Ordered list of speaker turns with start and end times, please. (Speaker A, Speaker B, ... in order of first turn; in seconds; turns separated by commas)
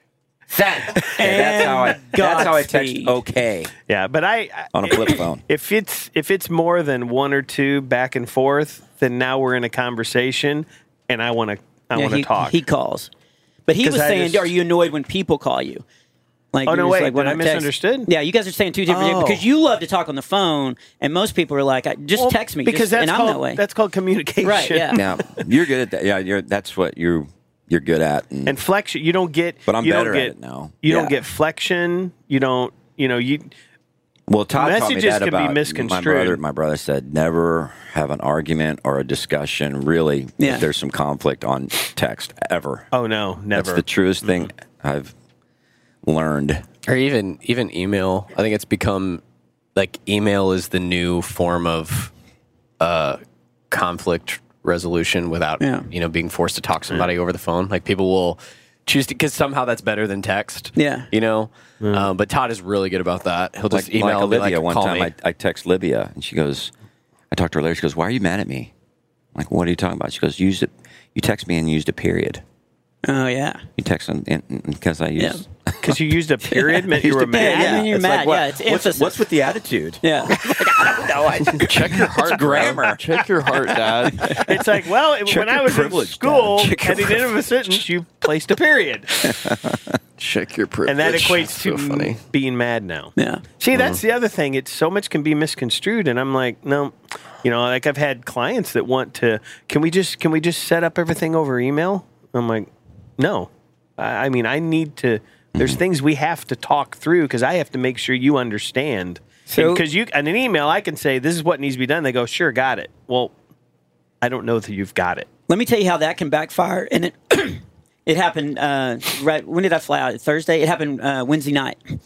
Speaker A: 0.5-3.7, Speaker B: 1.1-3.1, Speaker C: 3.9-12.6, Speaker A: 4.7-5.4, Speaker B: 11.9-13.1, Speaker B: 13.7-15.8, Speaker C: 13.8-14.5, Speaker B: 16.5-23.6, Speaker C: 16.7-18.1, Speaker C: 18.9-19.4, Speaker C: 22.2-25.4, Speaker B: 24.4-25.0, Speaker A: 24.9-28.6, Speaker C: 28.4-33.5, Speaker A: 29.7-31.1, Speaker A: 34.3-42.9, Speaker C: 34.5-36.4, Speaker B: 40.4-40.7, Speaker C: 42.9-44.5, Speaker A: 43.5-45.1, Speaker A: 46.0-46.6, Speaker D: 46.9-49.2, Speaker D: 49.8-52.1, Speaker D: 52.8-53.2, Speaker D: 53.7-65.1, Speaker B: 55.6-55.9, Speaker B: 60.8-61.1, Speaker C: 61.8-62.1, Speaker A: 63.7-66.7, Speaker A: 67.3-68.7, Speaker A: 69.3-72.4, Speaker B: 73.0-73.6, Speaker A: 73.8-76.0, Speaker B: 75.2-75.4, Speaker C: 75.8-77.9, Speaker B: 76.5-79.1, Speaker A: 77.0-83.2, Speaker B: 80.0-81.1, Speaker D: 81.5-84.5, Speaker C: 84.3-89.4, Speaker A: 85.3-87.1, Speaker D: 86.6-87.7, Speaker A: 89.3-89.8, Speaker D: 90.2-92.2, Speaker C: 90.9-113.3, Speaker B: 93.2-93.4, Speaker D: 93.7-94.0, Speaker A: 105.5-105.8, Speaker B: 109.5-109.8, Speaker C: 114.2-115.3, Speaker B: 115.5-121.8